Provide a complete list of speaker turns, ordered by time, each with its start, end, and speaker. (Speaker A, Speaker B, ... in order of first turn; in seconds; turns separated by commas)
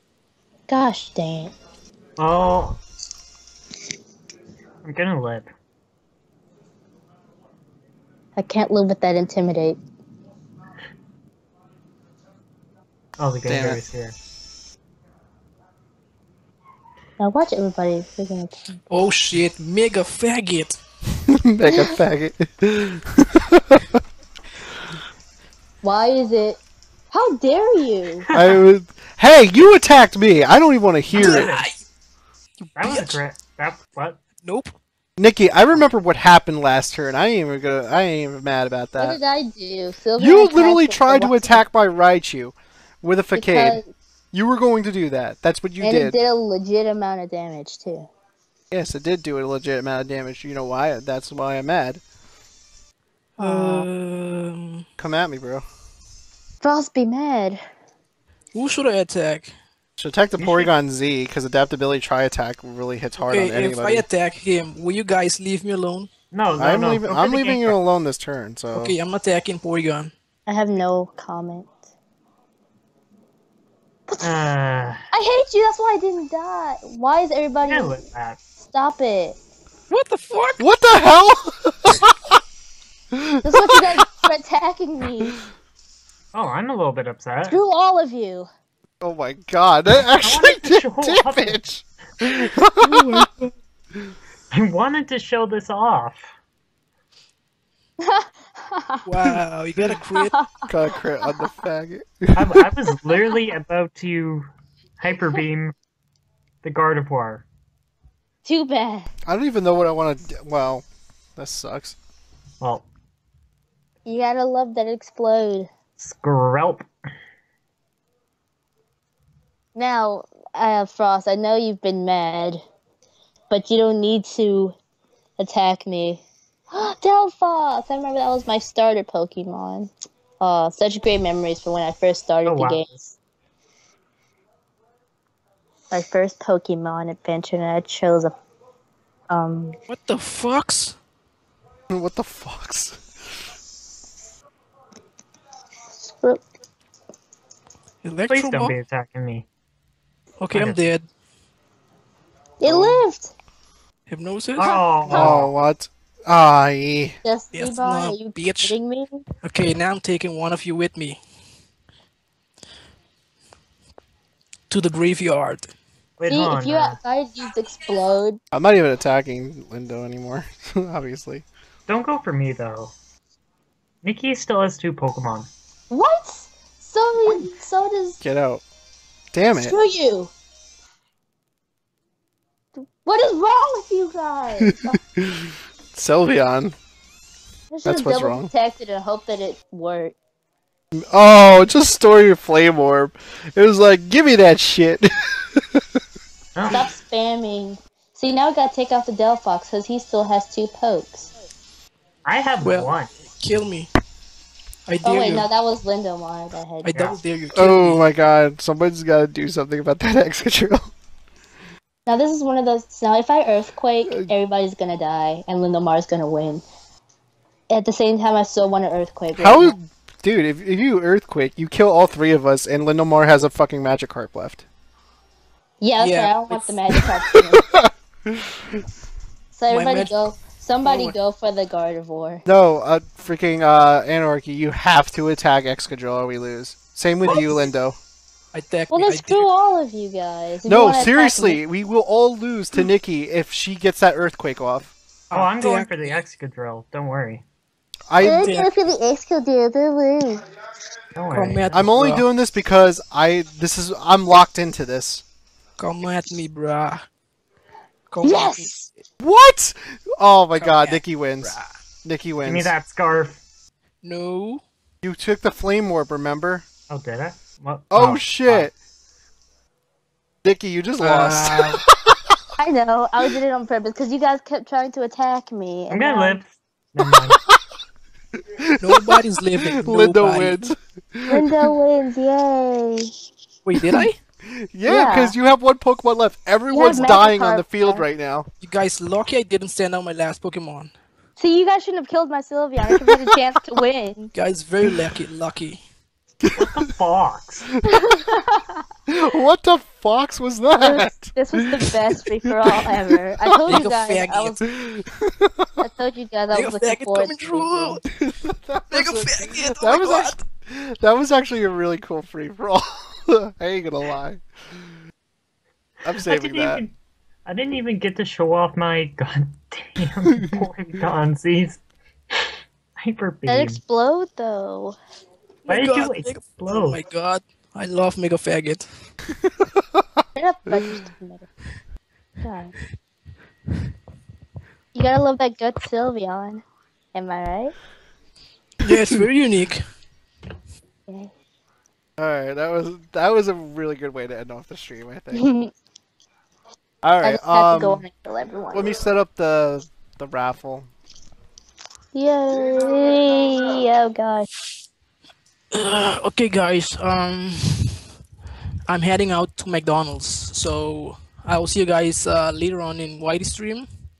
Speaker A: 0.7-1.5, Speaker B: 2.2-2.8, Speaker B: 4.8-5.5, Speaker A: 8.3-9.8, Speaker B: 13.2-14.1, Speaker C: 13.4-13.8, Speaker A: 17.2-18.8, Speaker D: 18.9-20.8, Speaker C: 21.3-23.8, Speaker A: 21.7-21.9, Speaker A: 25.8-26.6, Speaker A: 27.1-28.3, Speaker B: 28.3-28.6, Speaker C: 28.3-31.5, Speaker B: 31.1-31.7, Speaker D: 31.1-31.8, Speaker D: 32.6-33.2, Speaker B: 32.8-34.2, Speaker D: 34.4-34.8, Speaker C: 35.2-39.2, Speaker A: 39.0-41.6, Speaker C: 40.2-43.8, Speaker A: 43.3-43.9, Speaker C: 44.3-46.2, Speaker A: 45.8-48.1, Speaker C: 48.7-52.0, Speaker A: 53.4-53.9, Speaker D: 53.4-54.8, Speaker C: 55.0-55.6, Speaker A: 56.6-57.6, Speaker D: 58.5-59.5, Speaker C: 60.0-64.0, Speaker B: 60.4-60.7, Speaker D: 63.2-66.1, Speaker B: 66.3-67.8, Speaker C: 66.6-69.0, Speaker D: 68.7-70.1, Speaker A: 70.5-71.7, Speaker B: 74.2-75.0, Speaker A: 75.1-78.0, Speaker B: 77.7-78.4, Speaker A: 78.6-79.4, Speaker D: 79.9-80.6, Speaker C: 80.6-82.1, Speaker C: 83.1-83.8, Speaker A: 83.4-85.3, Speaker B: 86.3-87.6, Speaker A: 87.4-88.5, Speaker C: 89.0-93.2, Speaker B: 90.2-91.6, Speaker D: 92.8-93.5, Speaker B: 94.5-96.3, Speaker A: 98.0-99.1, Speaker D: 99.0-100.3, Speaker A: 100.2-100.5, Speaker C: 100.7-102.6, Speaker A: 101.2-101.5, Speaker B: 102.3-104.5, Speaker B: 105.0-105.7, Speaker B: 106.6-107.5, Speaker A: 108.4-109.1, Speaker C: 109.2-110.8, Speaker C: 111.4-112.0, Speaker A: 114.0-115.7, Speaker B: 116.0-116.8, Speaker A: 119.7-122.6, Speaker A: 123.5-124.8, Speaker A: 125.4-132.9, Speaker B: 132.4-133.1, Speaker A: 135.9-138.3, Speaker A: 139.3-139.7, Speaker D: 139.9-140.9, Speaker C: 141.9-143.0, Speaker A: 146.0-146.4, Speaker D: 148.0-148.7, Speaker B: 148.3-149.4, Speaker D: 150.4-151.1, Speaker B: 150.5-150.8, Speaker A: 152.6-153.3, Speaker D: 152.6-153.0, Speaker D: 154.1-154.8, Speaker B: 154.6-155.5, Speaker C: 155.1-157.2, Speaker A: 157.2-159.2, Speaker D: 157.5-158.7, Speaker D: 159.4-161.2, Speaker D: 164.7-165.7, Speaker B: 166.2-167.0, Speaker A: 166.2-168.4, Speaker C: 168.5-171.4, Speaker B: 171.9-172.9, Speaker B: 174.0-175.5, Speaker A: 175.9-178.2, Speaker C: 178.2-178.6, Speaker C: 179.3-179.8, Speaker A: 179.5-180.3, Speaker A: 182.8-185.0, Speaker C: 184.6-186.8, Speaker A: 187.7-190.1, Speaker C: 187.8-188.5, Speaker C: 191.0-195.8, Speaker B: 196.6-196.8, Speaker A: 196.7-201.3, Speaker B: 202.2-203.1, Speaker D: 202.6-203.9, Speaker D: 204.8-205.5, Speaker A: 205.0-207.1, Speaker D: 206.8-208.0, Speaker C: 207.5-210.9, Speaker A: 212.1-216.6, Speaker A: 217.7-219.8, Speaker C: 219.3-224.7, Speaker A: 225.8-227.6, Speaker D: 226.0-226.7, Speaker C: 227.6-228.8, Speaker A: 229.5-232.4, Speaker D: 229.7-230.2, Speaker D: 230.8-231.1, Speaker C: 232.4-238.0, Speaker D: 238.5-239.5, Speaker A: 238.9-241.6, Speaker C: 240.7-244.9, Speaker D: 245.3-246.2, Speaker B: 245.3-247.4, Speaker C: 248.1-248.4, Speaker A: 248.2-250.4, Speaker D: 248.4-248.7, Speaker B: 251.1-251.8, Speaker D: 251.3-252.2, Speaker C: 251.7-255.2, Speaker D: 255.8-257.0, Speaker D: 258.1-258.9, Speaker A: 258.2-258.9, Speaker C: 259.2-262.7, Speaker D: 260.6-261.7, Speaker B: 262.4-263.4, Speaker D: 264.0-264.6, Speaker C: 265.0-266.6, Speaker B: 266.9-268.7, Speaker C: 267.9-268.7, Speaker C: 270.4-271.7, Speaker D: 271.0-271.8, Speaker B: 271.2-271.6, Speaker A: 272.6-276.4, Speaker B: 275.9-277.4, Speaker C: 278.4-281.7, Speaker D: 278.8-280.6, Speaker A: 281.3-283.1, Speaker D: 283.6-284.2, Speaker C: 283.8-288.5, Speaker A: 284.9-285.3, Speaker A: 286.7-288.1, Speaker D: 288.6-290.9, Speaker A: 291.4-294.3, Speaker D: 294.3-295.8, Speaker B: 296.6-297.7, Speaker A: 297.9-298.8, Speaker C: 299.1-302.9, Speaker A: 300.8-304.6, Speaker C: 303.4-303.8, Speaker D: 303.7-304.6, Speaker C: 304.6-305.7, Speaker A: 305.8-308.0, Speaker D: 306.5-308.0, Speaker C: 308.1-314.4, Speaker D: 308.9-310.4, Speaker C: 316.0-316.8, Speaker B: 316.1-316.9, Speaker B: 317.4-321.8, Speaker B: 323.0-323.8, Speaker A: 323.5-324.9, Speaker D: 325.7-328.9, Speaker B: 325.7-327.0, Speaker A: 330.3-331.5, Speaker A: 332.4-332.7, Speaker A: 334.9-337.7, Speaker D: 338.8-339.8, Speaker A: 341.1-341.3, Speaker C: 342.2-345.4, Speaker A: 345.3-345.7, Speaker C: 347.0-348.0, Speaker A: 347.2-348.9, Speaker C: 348.7-350.9, Speaker A: 352.1-354.5, Speaker D: 355.7-358.0, Speaker D: 358.9-363.9